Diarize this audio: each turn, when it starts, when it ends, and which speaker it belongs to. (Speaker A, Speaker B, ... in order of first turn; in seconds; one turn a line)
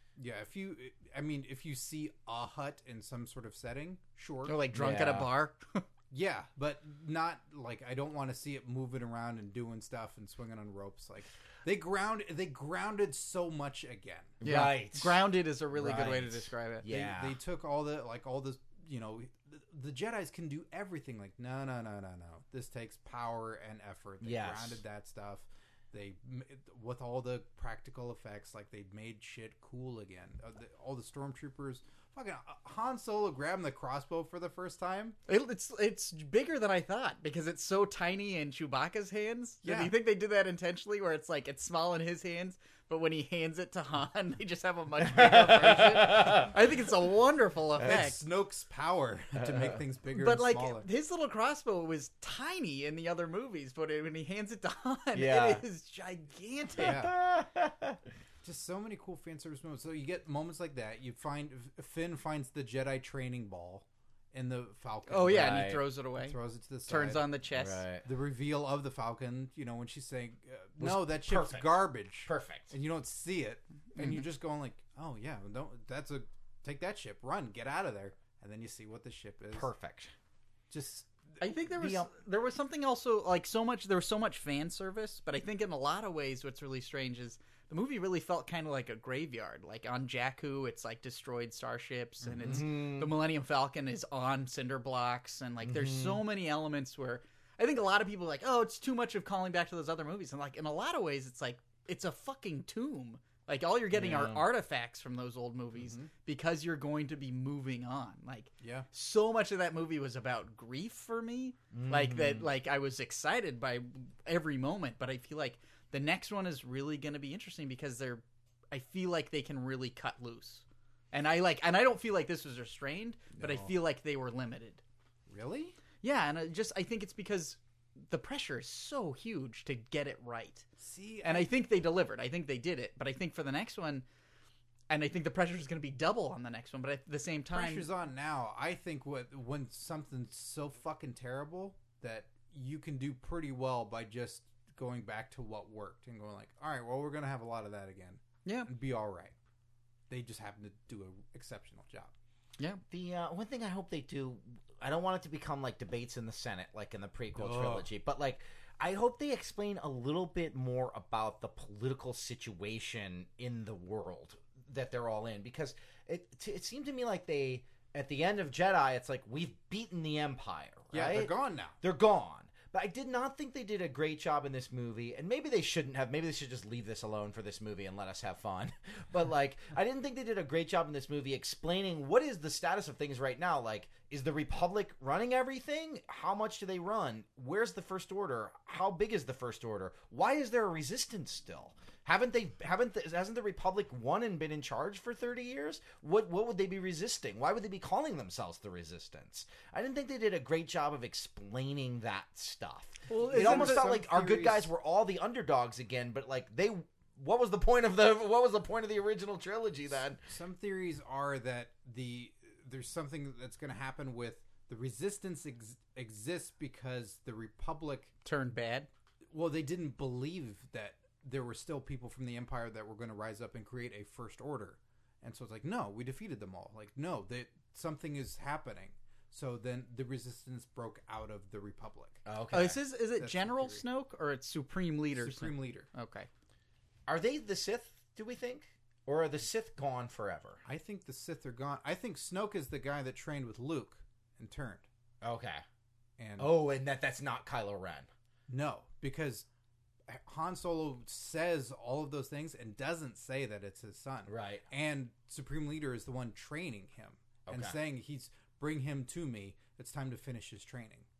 Speaker A: 0.2-4.6
Speaker B: 4.5-5.8
Speaker C: 4.7-5.3
Speaker A: 6.1-14.4
Speaker B: 14.4-16.8
Speaker C: 14.4-17.4
Speaker A: 16.8-35.2
Speaker C: 24.2-24.8
Speaker B: 35.3-48.2
Speaker A: 39.6-39.9
Speaker C: 45.0-46.5
Speaker A: 47.8-50.9
Speaker C: 49.4-49.7
Speaker B: 50.1-57.0
Speaker C: 55.1-55.6
Speaker C: 56.8-58.0
Speaker A: 56.8-57.1
Speaker A: 58.4-67.3
Speaker B: 65.1-67.8
Speaker C: 65.3-65.8
Speaker C: 67.5-68.0
Speaker A: 68.0-79.7
Speaker C: 70.8-72.7
Speaker B: 74.0-74.2
Speaker C: 79.5-80.1
Speaker A: 80.7-81.4
Speaker B: 81.4-124.8
Speaker C: 81.8-82.1
Speaker C: 92.2-93.1
Speaker C: 95.6-96.2
Speaker C: 103.9-104.5
Speaker A: 105.8-106.1
Speaker A: 108.6-108.9
Speaker C: 111.7-112.5
Speaker A: 123.4-123.7
Speaker A: 125.3-125.8
Speaker B: 126.0-130.7
Speaker A: 130.8-131.5
Speaker B: 131.2-134.0
Speaker B: 134.9-137.9
Speaker A: 137.5-149.3
Speaker A: 150.1-152.1
Speaker C: 152.9-210.2
Speaker A: 157.3-157.9
Speaker A: 170.9-171.8
Speaker B: 203.1-203.9
Speaker A: 203.1-204.7
Speaker A: 210.2-218.1
Speaker B: 218.2-218.9
Speaker A: 219.3-232.2
Speaker C: 232.2-232.8
Speaker B: 232.5-236.3
Speaker A: 233.1-233.8
Speaker A: 235.1-235.9
Speaker C: 237.1-240.6
Speaker A: 240.6-244.9
Speaker C: 245.2-245.6
Speaker A: 246.2-246.5
Speaker C: 246.4-248.1
Speaker A: 248.5-249.4
Speaker A: 250.1-261.1
Speaker C: 254.2-254.6
Speaker C: 257.4-257.8